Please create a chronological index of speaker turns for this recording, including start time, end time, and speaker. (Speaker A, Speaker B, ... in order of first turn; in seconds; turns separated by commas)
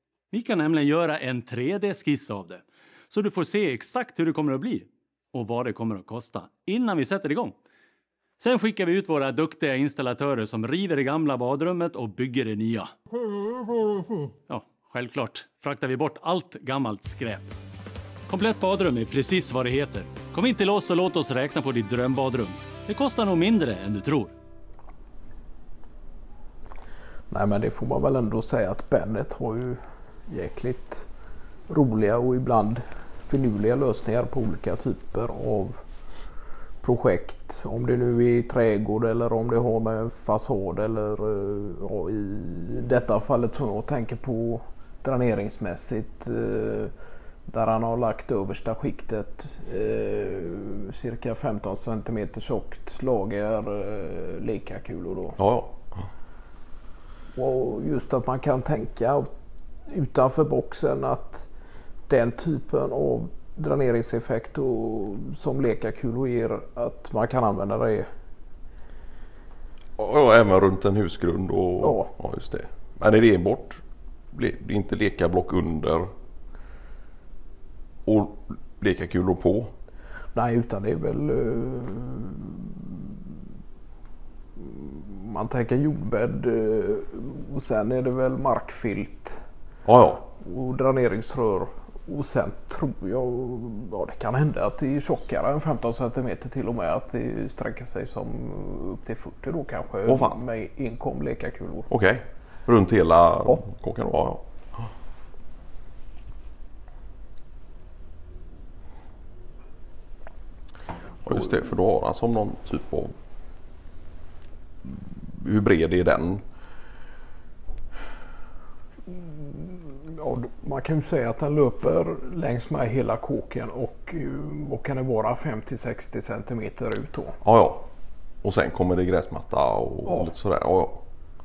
Speaker A: 0.3-7.6, Speaker A: 8.4-12.9, Speaker A: 14.5-17.5, Speaker A: 18.3-24.3, Speaker B: 27.3-31.1, Speaker B: 31.7-35.8, Speaker B: 36.8-46.9, Speaker B: 47.5-55.4, Speaker C: 55.4-56.1, Speaker B: 57.3-59.3, Speaker B: 59.9-61.5, Speaker B: 62.1-68.1, Speaker C: 70.0-76.1, Speaker B: 71.8-72.1, Speaker C: 78.1-79.7, Speaker B: 80.3-83.3, Speaker B: 84.6-89.4, Speaker C: 89.9-90.2, Speaker B: 90.3-101.9, Speaker C: 100.1-100.4, Speaker C: 101.9-104.9, Speaker C: 111.2-113.1, Speaker C: 114.8-116.4, Speaker B: 119.1-127.4, Speaker C: 127.4-127.9, Speaker C: 128.4-131.1